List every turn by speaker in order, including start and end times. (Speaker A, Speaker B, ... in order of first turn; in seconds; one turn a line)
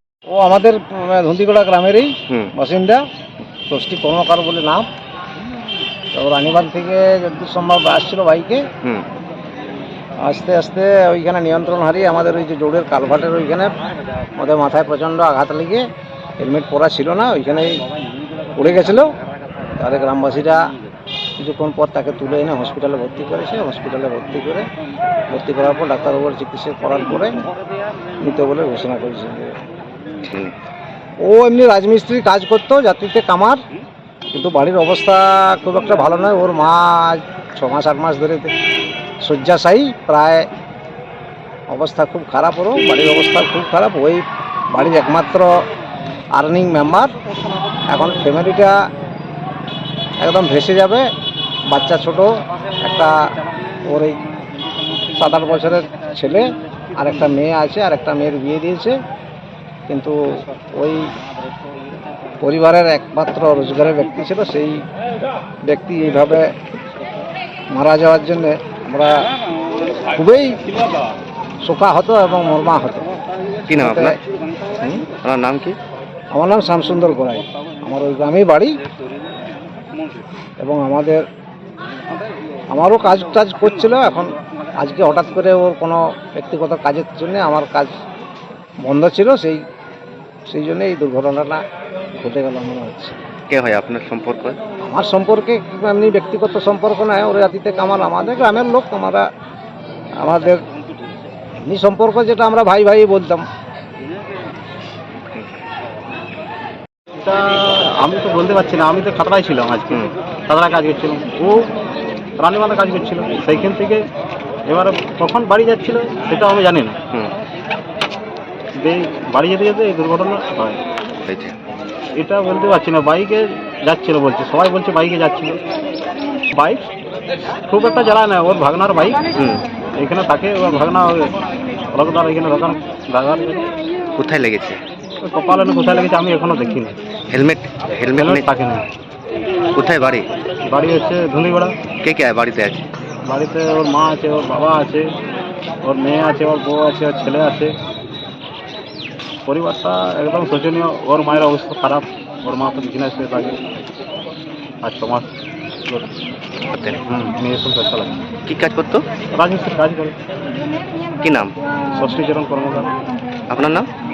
Speaker A: 0.3-3.0
Speaker A: 3.7-4.9
Speaker A: 6.1-8.7
Speaker A: 10.2-13.8
Speaker A: 14.4-15.8
Speaker A: 16.4-17.8
Speaker A: 18.6-19.1
Speaker A: 19.8-20.7
Speaker A: 21.4-24.7
Speaker A: 25.3-27.4
Speaker A: 28.2-29.6
Speaker B: 30.2-30.5
Speaker A: 31.2-33.6
Speaker A: 34.3-38.5
Speaker A: 39.2-40.5
Speaker A: 41.7-45.5
Speaker A: 46.3-47.1
Speaker A: 47.9-48.7
Speaker A: 50.2-51.1
Speaker A: 51.7-53.1
Speaker A: 53.9-54.2
Speaker A: 55.1-59.0
Speaker A: 59.9-60.1
Speaker A: 60.8-61.1
Speaker A: 62.4-64.8
Speaker A: 65.7-66.5
Speaker A: 67.7-69.1
Speaker A: 70.1-70.6
Speaker A: 71.6-73.1
Speaker B: 73.7-74.2
Speaker A: 73.8-74.2
Speaker B: 74.8-75.8
Speaker A: 76.3-78.8
Speaker A: 80.6-81.2
Speaker A: 82.7-87.9
Speaker A: 88.8-89.6
Speaker A: 90.5-91.6
Speaker A: 92.2-93.2
Speaker B: 93.5-94.6
Speaker A: 94.9-99.2
Speaker A: 100.2-100.6
Speaker A: 101.6-103.5
Speaker C: 107.2-111.7
Speaker C: 112.4-114.0
Speaker C: 114.7-117.0
Speaker C: 118.8-120.8
Speaker B: 121.3-121.5
Speaker C: 122.2-125.6
Speaker C: 126.5-126.9
Speaker C: 127.7-129.3
Speaker B: 129.4-129.7
Speaker C: 130.0-131.4
Speaker C: 131.9-133.6
Speaker B: 134.2-134.8
Speaker C: 135.2-137.0
Speaker B: 137.3-138.4
Speaker C: 138.2-138.8
Speaker B: 139.8-140.3
Speaker C: 140.7-141.8
Speaker B: 142.0-142.8
Speaker C: 143.2-145.1
Speaker C: 145.8-147.7
Speaker C: 149.5-153.6
Speaker C: 154.8-155.3
Speaker B: 156.7-157.0
Speaker C: 157.1-158.2
Speaker B: 158.5-159.0
Speaker C: 159.3-160.2
Speaker B: 161.2-161.6
Speaker C: 161.9-162.9
Speaker B: 163.5-163.9